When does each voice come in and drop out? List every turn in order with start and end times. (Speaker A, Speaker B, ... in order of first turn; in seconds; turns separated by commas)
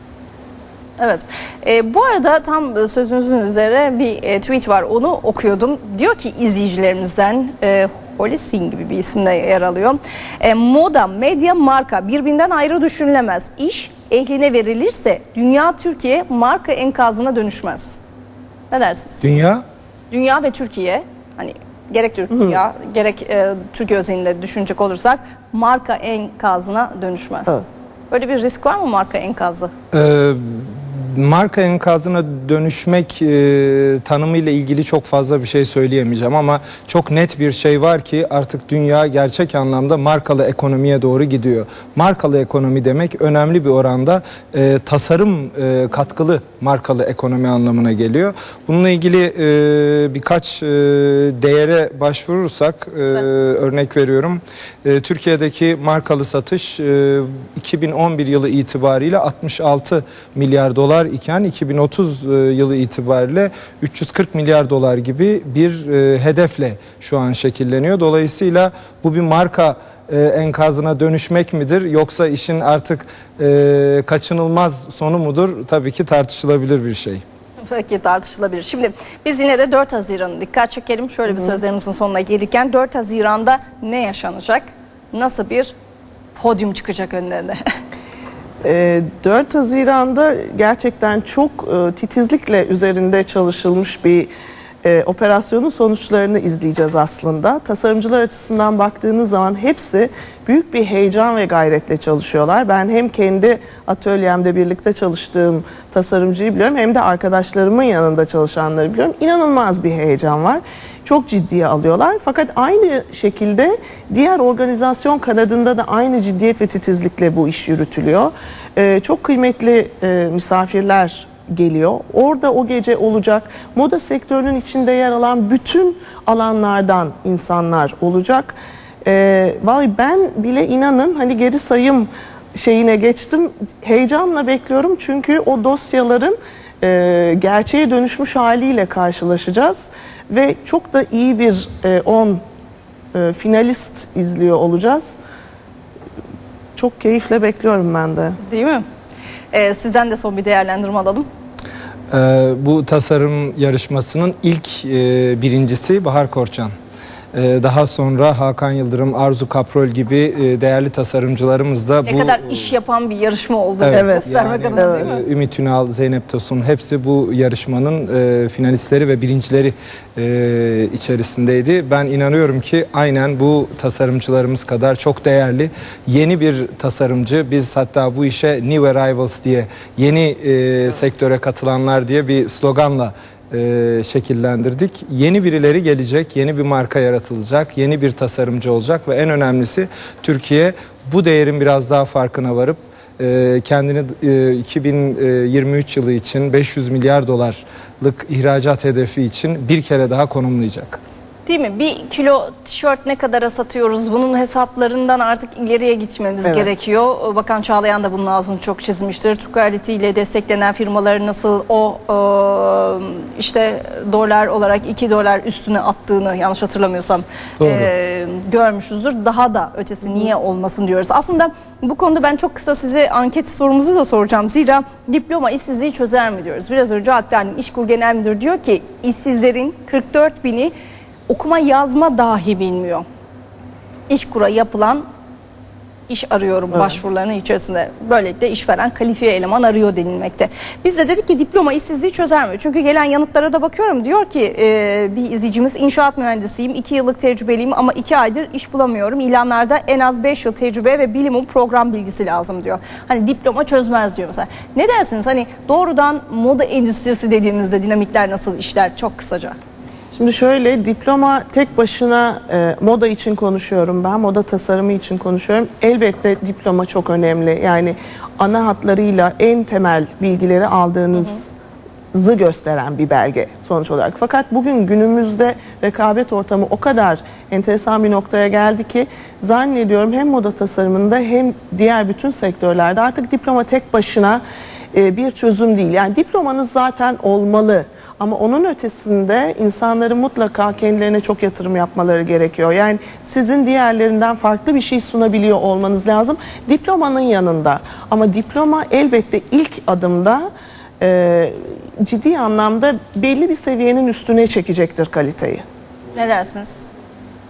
Speaker A: 1.0-18.0, Speaker A: 18.7-19.3, Speaker B: 19.2-19.6, Speaker A: 20.1-29.7, Speaker C: 22.3-22.6, Speaker B: 29.9-77.2, Speaker A: 77.7-85.8, Speaker A: 86.4-87.6, Speaker C: 88.6-94.3, Speaker C: 94.8-142.4, Speaker C: 143.1-145.2, Speaker C: 146.8-148.4, Speaker A: 148.4-148.8, Speaker A: 149.5-151.3, Speaker B: 152.1-156.7, Speaker B: 157.3-162.7, Speaker A: 162.1-165.2, Speaker B: 163.8-201.0, Speaker C: 163.9-165.1, Speaker A: 201.5-230.7, Speaker B: 217.6-217.9, Speaker A: 231.3-233.1, Speaker A: 234.1-235.0, Speaker A: 236.1-259.6, Speaker C: 260.1-271.5, Speaker C: 272.1-284.4, Speaker C: 284.9-300.5, Speaker C: 301.0-305.6, Speaker A: 306.1-306.9